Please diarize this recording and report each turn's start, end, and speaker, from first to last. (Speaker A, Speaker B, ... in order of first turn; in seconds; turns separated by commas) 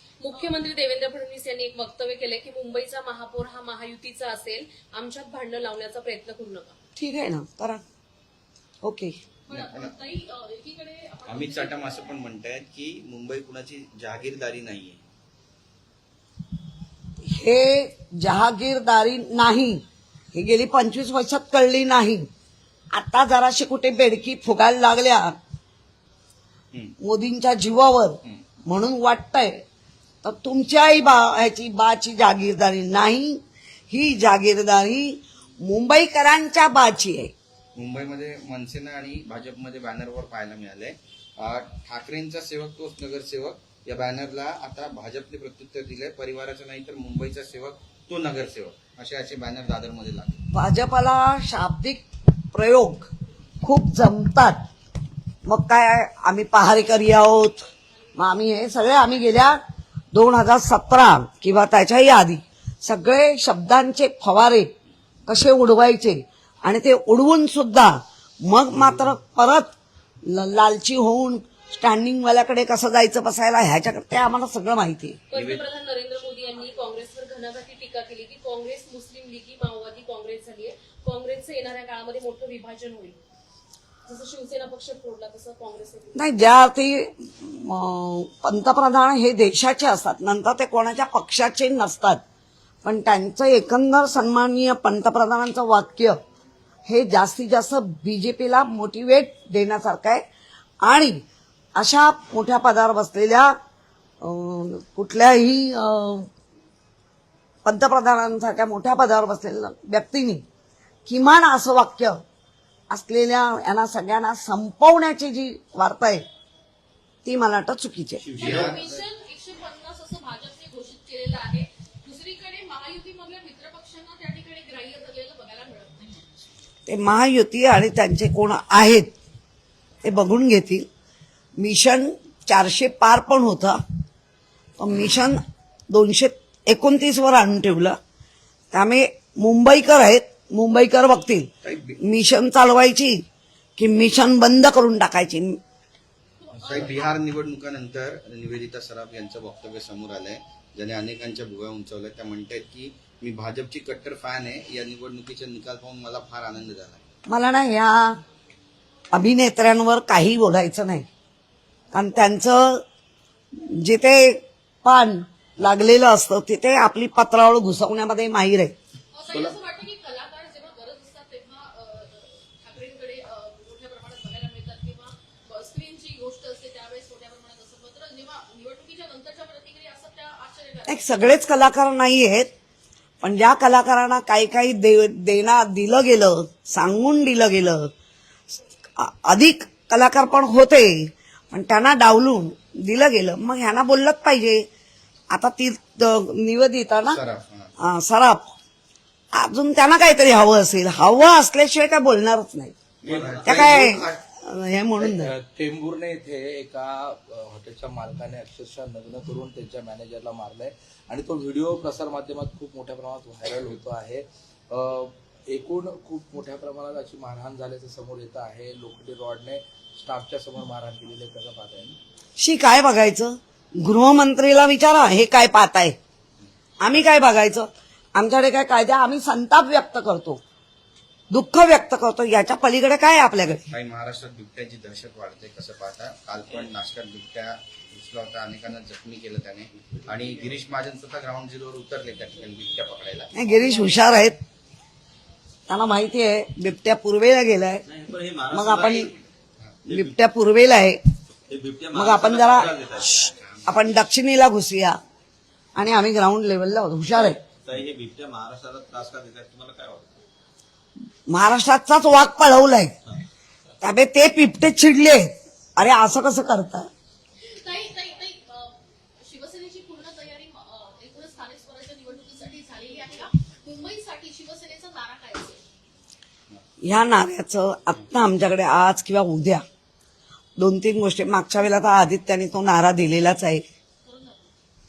Speaker A: 0.2-6.8, Speaker B: 7.0-7.8, Speaker B: 8.8-9.1, Speaker C: 9.5-12.1, Speaker D: 9.5-9.9, Speaker D: 11.3-15.1, Speaker B: 17.3-19.8, Speaker B: 20.3-22.3, Speaker B: 22.9-25.4, Speaker B: 27.0-29.6, Speaker B: 30.2-37.3, Speaker D: 37.8-50.4, Speaker B: 50.5-53.1, Speaker B: 53.6-54.6, Speaker B: 55.5-57.6, Speaker B: 58.2-59.6, Speaker B: 60.1-64.7, Speaker B: 65.3-69.7, Speaker B: 70.3-75.2, Speaker A: 75.3-83.2, Speaker D: 75.3-75.6, Speaker A: 84.1-86.3, Speaker B: 86.2-92.2, Speaker B: 92.8-96.2, Speaker B: 96.9-100.2, Speaker B: 100.8-101.2, Speaker B: 101.8-103.5, Speaker B: 104.2-106.3, Speaker B: 107.7-110.4, Speaker B: 111.1-112.2, Speaker B: 112.9-116.2, Speaker B: 117.2-118.6, Speaker E: 118.3-118.7, Speaker D: 118.3-118.8, Speaker C: 118.4-126.5, Speaker B: 126.9-129.1, Speaker B: 130.0-130.9, Speaker B: 131.6-133.8, Speaker B: 134.8-138.0, Speaker B: 138.7-141.5, Speaker D: 141.6-142.0, Speaker B: 142.0-143.2, Speaker B: 143.8-145.6, Speaker C: 146.4-147.1, Speaker D: 146.7-157.0, Speaker B: 157.3-158.2, Speaker B: 159.1-161.1, Speaker B: 161.9-162.8, Speaker B: 163.6-168.8, Speaker C: 169.1-181.3, Speaker B: 180.9-182.5, Speaker B: 183.2-187.9, Speaker B: 189.0-194.7, Speaker B: 195.3-197.2, Speaker D: 197.1-197.7, Speaker B: 197.8-198.5, Speaker B: 199.3-202.7, Speaker D: 203.0-204.2, Speaker F: 203.1-203.6, Speaker B: 203.4-205.3, Speaker F: 205.0-222.0, Speaker B: 222.4-226.0, Speaker B: 226.8-230.4, Speaker B: 231.3-233.7, Speaker D: 233.7-243.3, Speaker B: 243.3-244.4, Speaker B: 245.7-247.8, Speaker E: 247.9-249.2, Speaker B: 248.5-249.1, Speaker B: 249.9-251.0, Speaker E: 251.5-253.3, Speaker B: 251.9-252.7, Speaker B: 253.7-255.0, Speaker B: 255.8-257.4, Speaker E: 257.6-260.2, Speaker B: 261.3-262.9, Speaker B: 263.8-266.9, Speaker C: 267.4-275.6, Speaker B: 276.8-279.6, Speaker B: 280.6-283.6, Speaker C: 284.0-284.5